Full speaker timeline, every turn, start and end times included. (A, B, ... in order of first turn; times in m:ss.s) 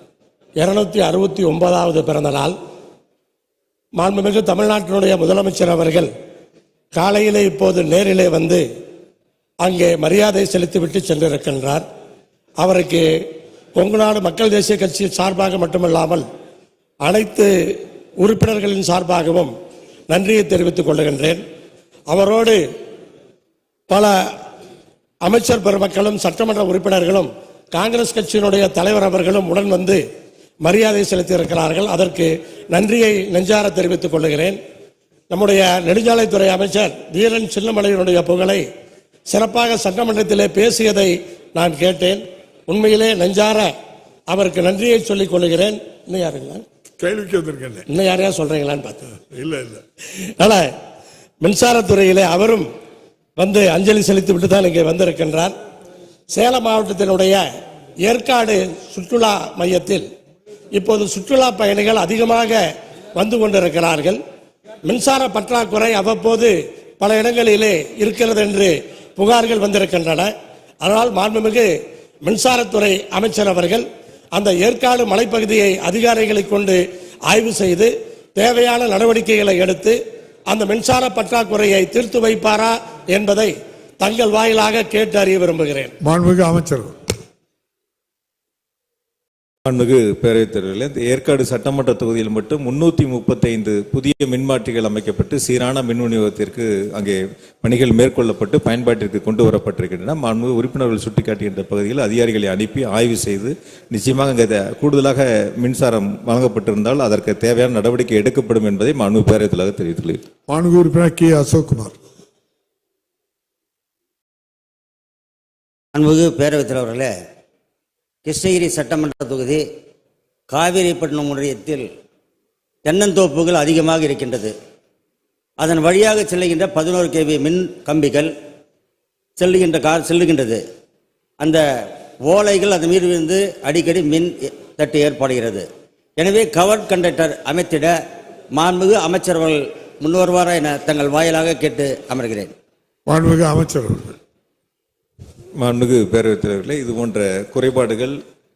0:00.6-0:02.5 A
0:04.0-0:06.1 A
0:06.9-0:08.6 A
0:09.6-0:11.8 A
0:12.6-0:13.0 A
0:13.8-0:16.2 A
0:17.0-0:17.5 A
0:18.2-0:19.5 A
0:20.1-0:21.4 A
0:22.1-0:22.6 A
0:23.9-0:24.2 A
0:25.2-0:30.0 A
0:30.6-0:34.6 A
0:35.3-0:38.6 A
0:39.3-0:43.7 A
0:44.3-0:46.6 A
0:47.0-0:47.8 B
0:47.9-0:49.2 A
0:49.3-0:49.8 B
0:50.4-0:50.6 A
0:51.4-0:52.6 A
0:53.4-0:55.5 A
0:56.3-0:57.4 A
0:58.0-1:00.0 A
1:00.7-1:02.6 A
1:03.1-1:04.2 A
1:04.8-1:10.3 A
1:10.8-1:11.7 A
1:12.2-1:20.0 A
1:20.5-1:25.9 A
1:26.0-1:26.9 B
1:29.6-1:50.2 C
1:50.5-1:51.9 B
1:56.0-1:57.1 D
1:58.2-1:59.6 D
2:00.5-2:01.9 D
2:02.8-2:04.5 D
2:05.6-2:08.3 D
2:09.4-2:10.6 D
2:12.2-2:15.6 D
2:16.2-2:17.9 D
2:18.5-2:22.5 D
2:23.1-2:24.1 B
2:25.6-2:28.2 C